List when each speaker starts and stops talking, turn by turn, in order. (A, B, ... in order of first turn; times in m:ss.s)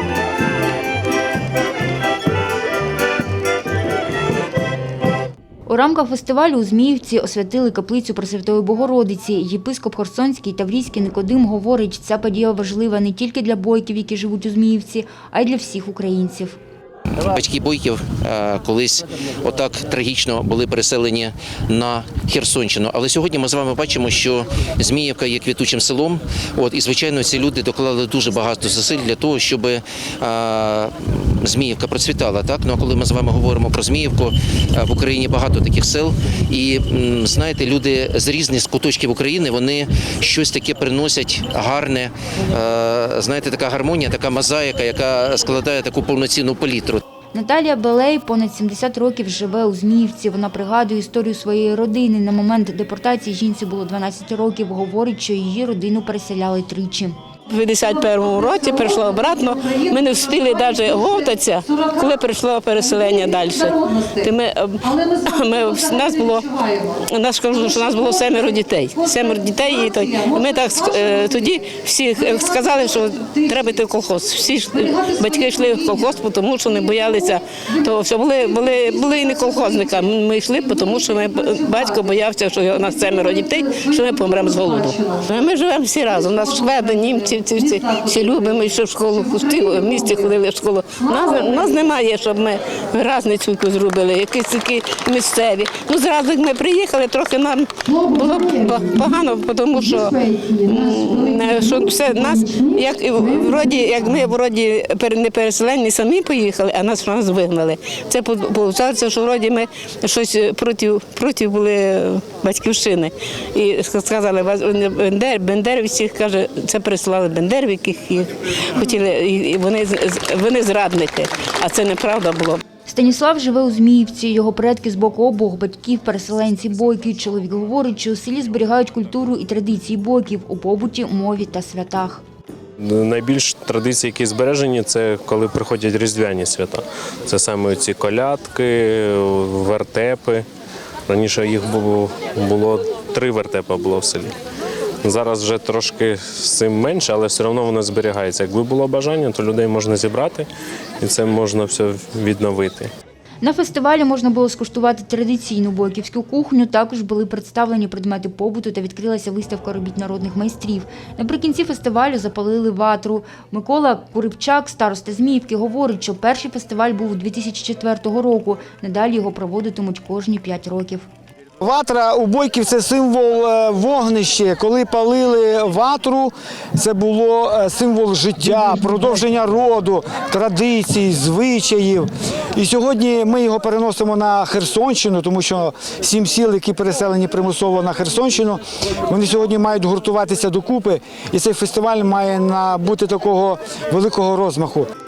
0:05.7-0:16.6 A
0:17.2-0:47.0 B
0:47.3-0:57.2 A
0:57.5-2:02.6 C
2:02.9-2:12.2 A
2:12.8-2:20.4 D
2:21.1-2:24.3 D
2:25.0-2:30.5 D
2:31.0-2:32.9 D
2:33.4-2:51.1 A
2:51.6-3:14.9 E